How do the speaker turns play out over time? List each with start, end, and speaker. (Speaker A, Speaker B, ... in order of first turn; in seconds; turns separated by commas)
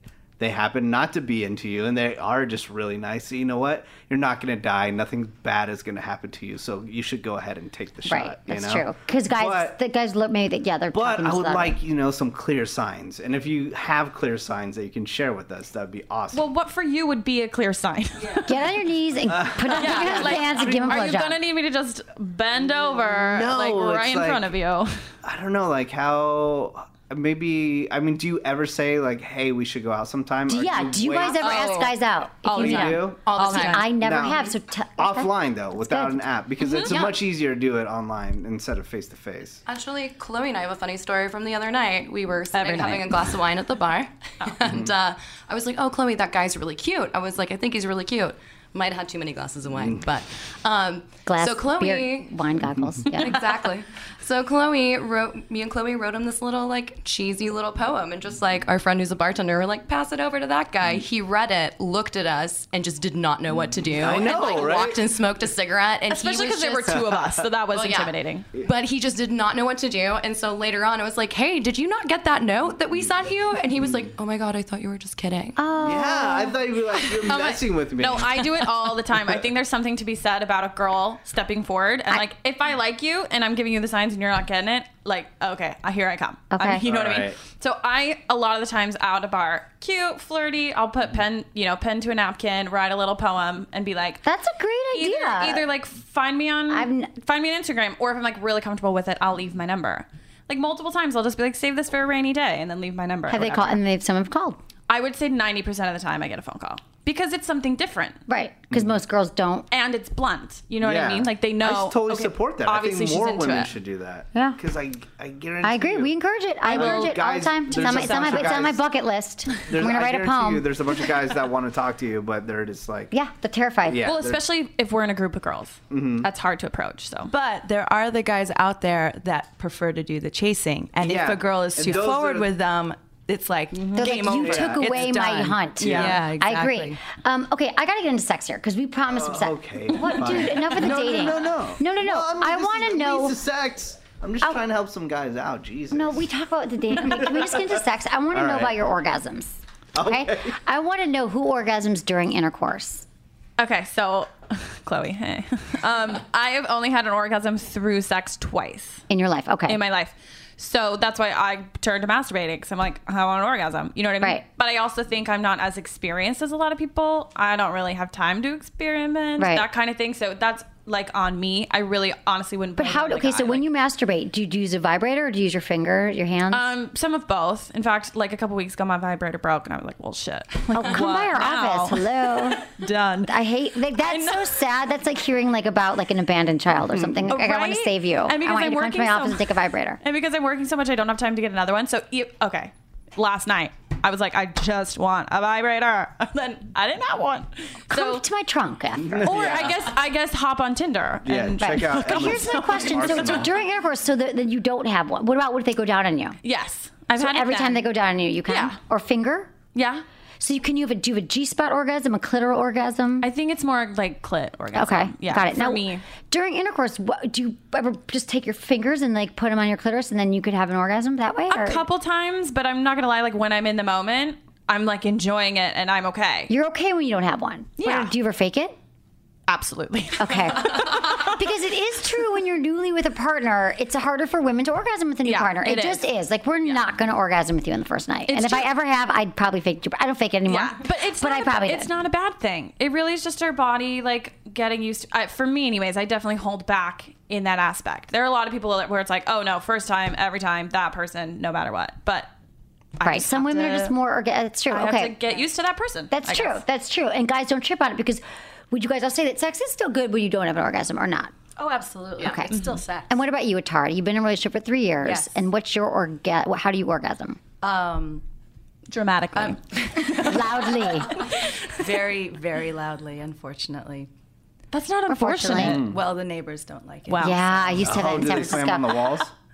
Speaker A: 0.4-9.8, Speaker B: 8.1-11.8, Speaker A: 10.9-16.5, Speaker C: 16.3-18.5, Speaker B: 18.4-21.3, Speaker A: 19.3-20.9, Speaker C: 19.8-25.0, Speaker D: 22.6-23.0, Speaker A: 23.2-24.5, Speaker A: 25.2-31.7, Speaker B: 30.5-36.2, Speaker E: 31.4-31.9, Speaker C: 31.5-31.8, Speaker C: 32.5-33.8, Speaker A: 32.5-33.2, Speaker E: 32.6-33.9, Speaker A: 34.0-39.6, Speaker C: 36.6-36.9, Speaker E: 39.7-52.3, Speaker C: 42.5-43.3, Speaker A: 44.6-44.9, Speaker B: 51.2-53.4, Speaker E: 53.1-67.1, Speaker A: 63.9-65.0, Speaker C: 66.1-68.5, Speaker A: 66.9-67.2, Speaker E: 67.7-75.6, Speaker A: 73.8-74.1, Speaker B: 75.6-76.5, Speaker A: 75.8-78.6, Speaker C: 77.2-94.2, Speaker B: 86.5-86.8, Speaker A: 86.8-87.4, Speaker B: 94.2-95.6, Speaker C: 94.9-103.8, Speaker B: 96.7-97.1, Speaker B: 103.3-104.6, Speaker C: 104.9-108.2, Speaker B: 108.3-109.7, Speaker C: 109.7-113.7, Speaker A: 110.8-116.1, Speaker B: 115.6-120.7, Speaker C: 116.7-118.7, Speaker A: 116.7-118.8, Speaker A: 119.7-123.1, Speaker B: 123.1-124.0, Speaker A: 123.8-124.4, Speaker C: 124.0-127.3, Speaker A: 125.9-126.3, Speaker D: 127.3-137.0, Speaker A: 131.0-132.5, Speaker B: 133.9-143.4, Speaker A: 134.2-135.1, Speaker A: 135.8-136.2, Speaker A: 139.1-146.2, Speaker B: 145.9-153.0, Speaker A: 147.0-147.7, Speaker A: 148.3-148.8, Speaker A: 149.9-150.6, Speaker C: 153.6-159.0, Speaker B: 159.1-159.8, Speaker C: 159.7-173.6, Speaker B: 169.4-169.6, Speaker B: 172.8-176.7, Speaker C: 176.5-183.3, Speaker B: 180.7-182.6, Speaker B: 183.3-190.0, Speaker C: 184.0-184.6, Speaker C: 187.3-189.5, Speaker C: 190.0-198.2, Speaker B: 197.9-199.4, Speaker A: 199.0-199.9, Speaker C: 199.2-203.5, Speaker A: 201.2-203.5, Speaker B: 201.6-206.4, Speaker C: 206.4-207.8, Speaker B: 207.2-209.5, Speaker C: 208.5-208.8, Speaker C: 209.7-210.0, Speaker B: 210.4-213.3, Speaker C: 213.2-216.0, Speaker B: 214.7-221.8, Speaker C: 221.5-226.5, Speaker B: 226.5-228.7, Speaker C: 227.8-228.1, Speaker C: 229.5-231.4, Speaker B: 230.2-241.9, Speaker C: 235.2-236.0, Speaker C: 238.3-238.7, Speaker C: 240.4-252.3, Speaker C: 253.0-253.9, Speaker B: 253.0-255.2, Speaker C: 254.7-256.6, Speaker B: 256.1-261.3, Speaker D: 261.6-263.2, Speaker B: 262.2-262.5, Speaker B: 263.1-267.4, Speaker D: 265.0-265.4, Speaker D: 267.6-268.2, Speaker C: 268.9-271.4, Speaker B: 270.0-271.1, Speaker D: 271.7-274.1, Speaker C: 274.7-275.9, Speaker B: 275.1-275.8, Speaker A: 275.6-276.0, Speaker D: 275.7-277.9, Speaker C: 277.1-277.6, Speaker B: 277.2-278.9, Speaker A: 277.8-279.3